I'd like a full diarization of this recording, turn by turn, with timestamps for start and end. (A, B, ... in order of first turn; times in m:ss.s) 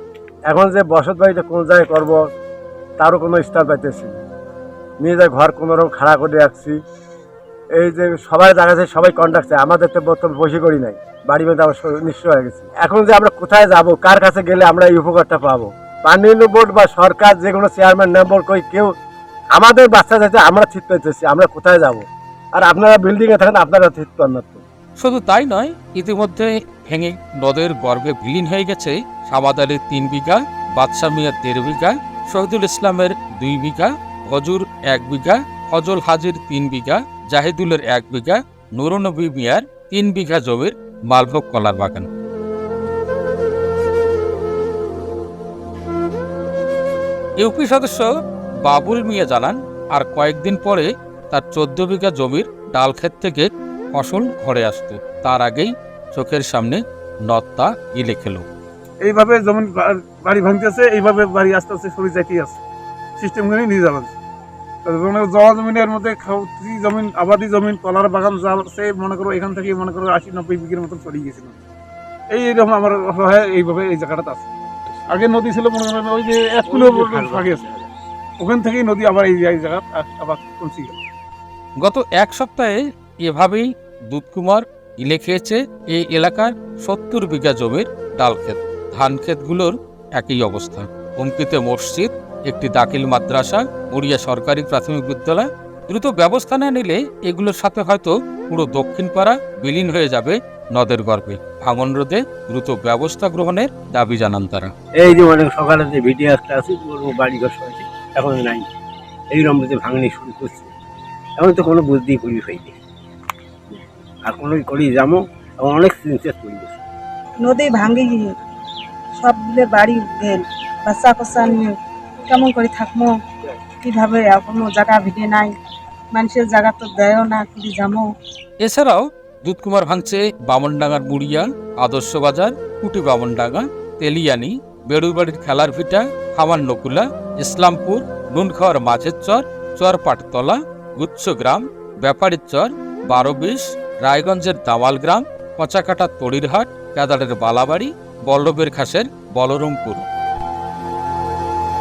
0:00.5-0:02.2 A
0:03.0-0:04.2 A
0:05.0-0:06.8 A
0:07.8-0:18.9 A
0:19.5-0:24.6 A
0:25.0-0:42.1 B
0:47.4-0:48.1 B
0:48.6-0:58.4 B
0:59.0-1:02.6 C
1:03.2-1:04.1 C
1:04.8-1:11.6 C
1:12.3-1:14.5 C
1:15.1-1:17.7 C
1:16.7-1:17.8 D
1:18.4-1:21.0 C
1:21.8-1:44.7 B
1:45.0-1:48.6 D
1:49.3-1:50.7 D
1:51.4-1:52.8 D
1:54.2-1:56.8 D
1:57.4-1:58.3 E
1:59.2-2:01.7 E
2:02.3-2:03.1 E
2:03.8-2:05.5 E
2:06.1-2:08.1 E
2:08.6-2:30.1 B